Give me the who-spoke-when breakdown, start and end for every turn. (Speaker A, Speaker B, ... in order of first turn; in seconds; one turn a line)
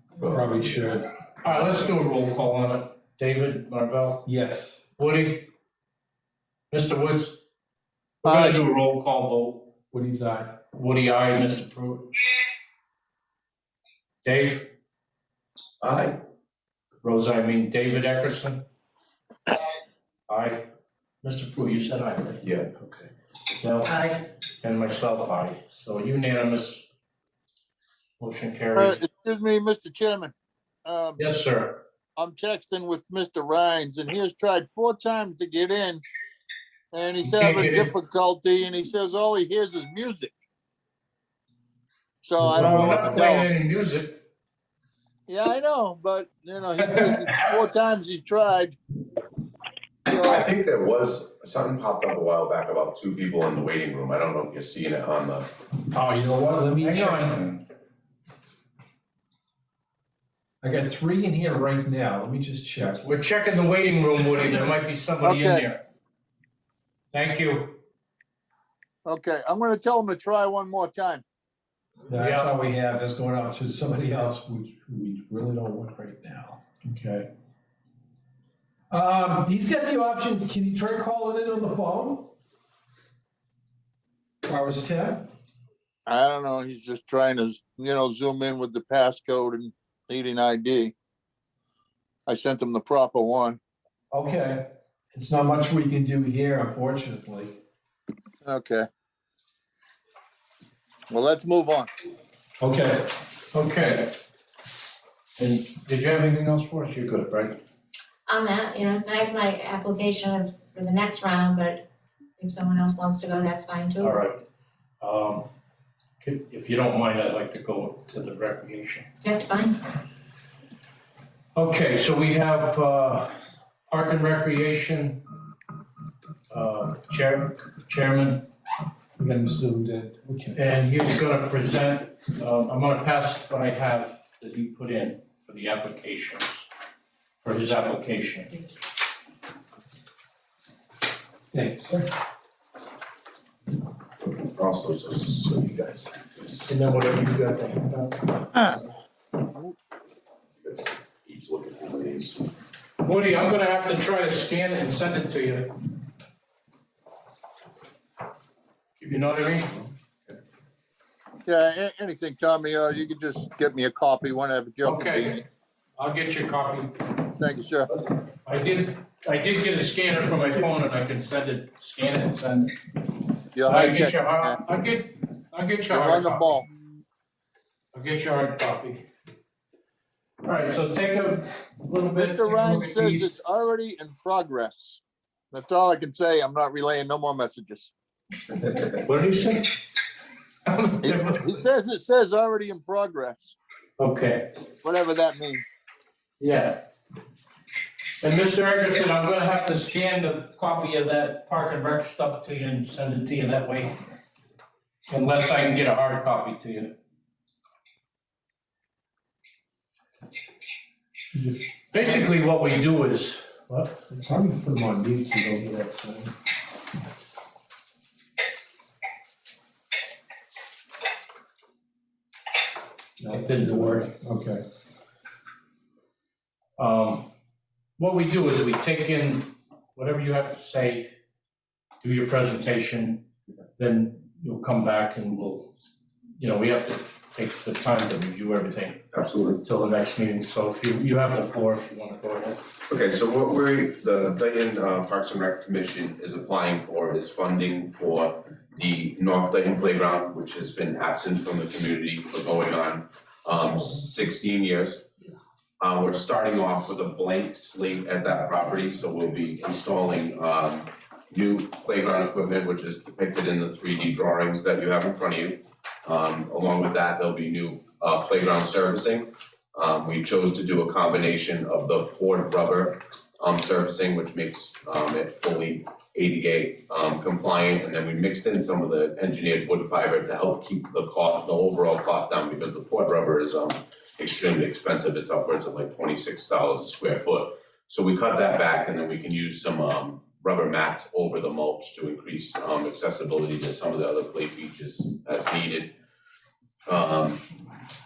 Speaker A: 0.2-0.4
Speaker B: 0.2-1.0
Speaker C: 1.4-4.3
Speaker B: 4.2-4.8
Speaker C: 5.0-5.5
Speaker C: 6.7-7.4
Speaker C: 8.2-9.7
Speaker D: 8.2-8.6
Speaker B: 9.9-10.6
Speaker C: 10.7-12.1
Speaker C: 14.2-14.7
Speaker B: 15.8-16.2
Speaker C: 17.0-18.6
Speaker C: 20.3-20.6
Speaker C: 21.2-24.1
Speaker A: 22.4-22.8
Speaker C: 24.6-26.9
Speaker C: 28.2-29.0
Speaker D: 28.7-30.3
Speaker D: 30.8-31.2
Speaker C: 31.2-31.8
Speaker D: 32.2-36.0
Speaker D: 36.9-40.3
Speaker C: 37.2-37.9
Speaker D: 42.2-43.5
Speaker C: 42.4-44.2
Speaker B: 42.5-42.9
Speaker D: 45.3-48.7
Speaker D: 50.1-50.5
Speaker A: 50.2-55.5
Speaker B: 55.9-57.4
Speaker C: 56.8-57.6
Speaker B: 60.6-63.1
Speaker C: 63.0-65.8
Speaker D: 65.2-65.7
Speaker C: 67.1-67.8
Speaker D: 69.0-71.2
Speaker B: 72.1-77.3
Speaker C: 72.1-72.5
Speaker B: 78.9-82.3
Speaker B: 84.4-85.3
Speaker D: 86.0-90.9
Speaker D: 92.3-93.6
Speaker B: 94.1-97.6
Speaker D: 98.4-98.9
Speaker D: 101.1-101.9
Speaker B: 102.6-103.1
Speaker C: 103.5-104.1
Speaker C: 105.4-107.6
Speaker E: 108.3-111.8
Speaker E: 112.4-114.2
Speaker C: 114.0-114.4
Speaker C: 115.0-115.5
Speaker C: 116.2-119.1
Speaker E: 119.2-119.8
Speaker C: 121.5-123.3
Speaker C: 123.9-125.2
Speaker C: 126.5-128.5
Speaker B: 129.2-130.6
Speaker C: 130.5-136.7
Speaker C: 137.4-138.6
Speaker B: 141.5-142.1
Speaker A: 144.2-146.7
Speaker C: 146.7-148.5
Speaker A: 150.6-152.4
Speaker C: 153.0-155.7
Speaker C: 159.0-159.7
Speaker D: 161.4-165.4
Speaker C: 164.8-165.4
Speaker C: 166.0-167.1
Speaker D: 167.4-167.9
Speaker C: 168.4-172.7
Speaker D: 173.5-174.6
Speaker C: 173.6-176.6
Speaker D: 175.9-176.7
Speaker C: 177.9-179.1
Speaker C: 180.4-183.3
Speaker D: 182.2-187.9
Speaker C: 188.8-189.8
Speaker C: 190.6-191.6
Speaker D: 191.0-193.6
Speaker C: 194.0-194.5
Speaker D: 194.8-195.6
Speaker C: 196.4-196.8
Speaker C: 198.2-204.0
Speaker C: 205.1-206.9
Speaker C: 211.9-214.0
Speaker B: 214.1-216.3
Speaker B: 223.2-224.6
Speaker C: 223.3-224.1
Speaker C: 226.8-227.3
Speaker C: 228.0-231.1
Speaker C: 232.0-233.2
Speaker C: 233.8-235.7
Speaker C: 236.4-239.0
Speaker A: 239.1-239.6
Speaker C: 239.6-242.6
Speaker A: 242.9-255.1
Speaker A: 255.8-295.9
Speaker A: 296.9-297.4